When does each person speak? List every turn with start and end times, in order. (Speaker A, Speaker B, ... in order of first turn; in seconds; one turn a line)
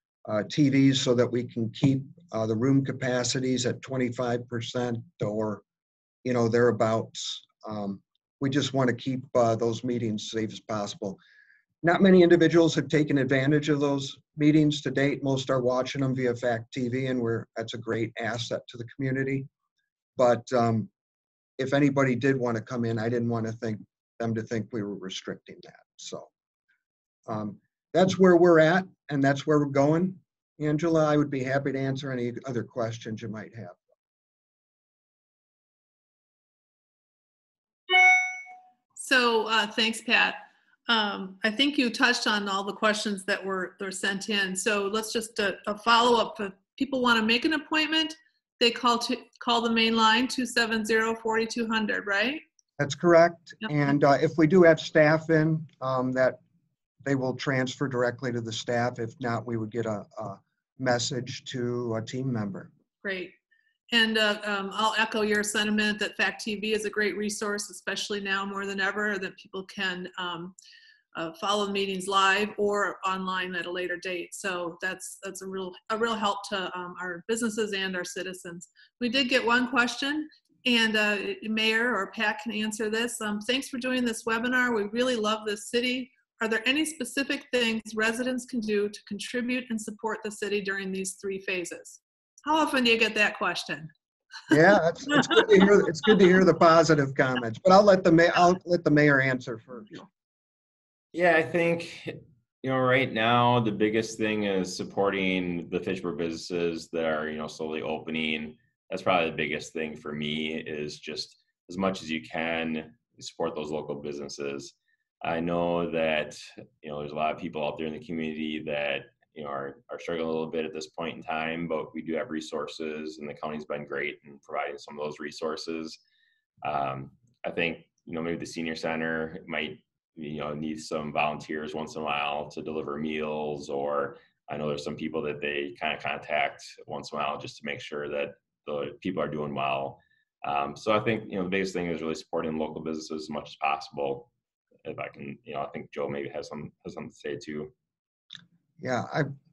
Speaker A: 0.3-5.6
Speaker A: 6.2-11.2
Speaker A: 11.8-19.5
Speaker A: 20.2-20.9
Speaker A: 21.6-26.3
Speaker A: 27.3-33.8
Speaker B: 39.0-52.4
Speaker A: 52.8-56.4
Speaker A: 57.0-62.7
Speaker B: 63.0-63.3
Speaker B: 63.9-70.5
Speaker B: 71.1-93.9
Speaker A: 94.5-100.0
Speaker B: 95.1-95.5
Speaker C: 101.1-126.0
Speaker C: 126.6-144.3
Speaker C: 144.8-147.7
Speaker A: 148.8-149.3